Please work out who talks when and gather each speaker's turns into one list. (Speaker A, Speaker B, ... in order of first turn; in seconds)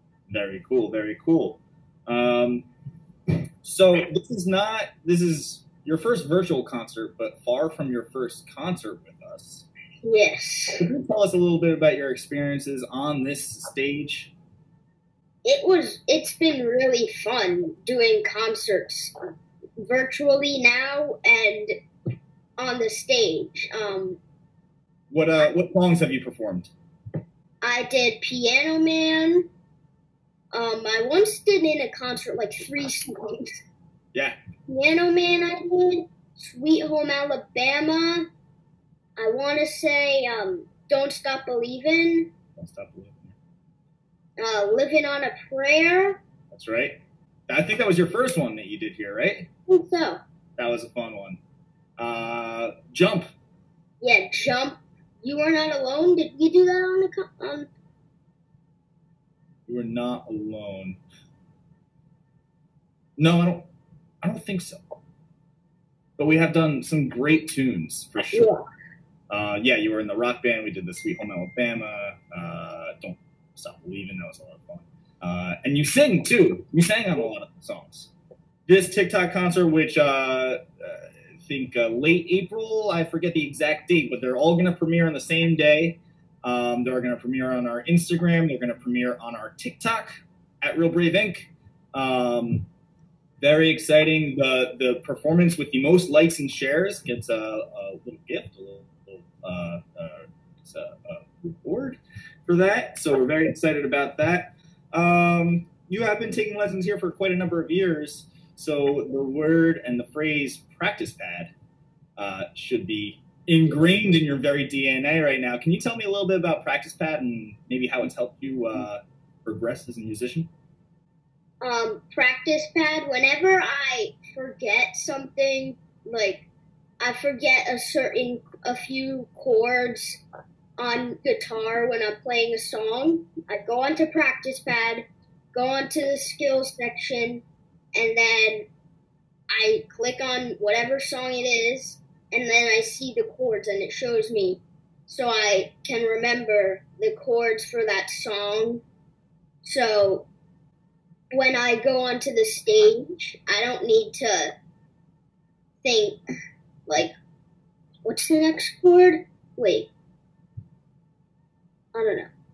Speaker A: 0.3-2.6, 3.6-9.7, 10.8-14.3, 25.1-26.7, 42.6-43.3, 46.5-49.5, 50.6-51.4, 52.0-53.3, 59.7-61.0, 63.2-63.7, 64.2-64.8, 66.2-68.5, 69.3-78.1, 78.7-92.7, 93.4-111.5, 112.2-120.5
Speaker B: 10.0-10.8, 15.4-19.1, 19.8-21.7, 22.6-24.2, 27.6-29.5, 30.5-33.6, 34.7-38.3, 39.2-42.3, 44.4-46.2, 49.7-50.2, 54.0-57.7, 68.3-68.6, 121.6-126.5, 127.0-130.2, 130.8-137.4, 137.9-138.7, 139.5-148.8, 149.6-150.3, 151.3-154.6, 155.8-156.2, 158.1-159.9, 161.9-162.3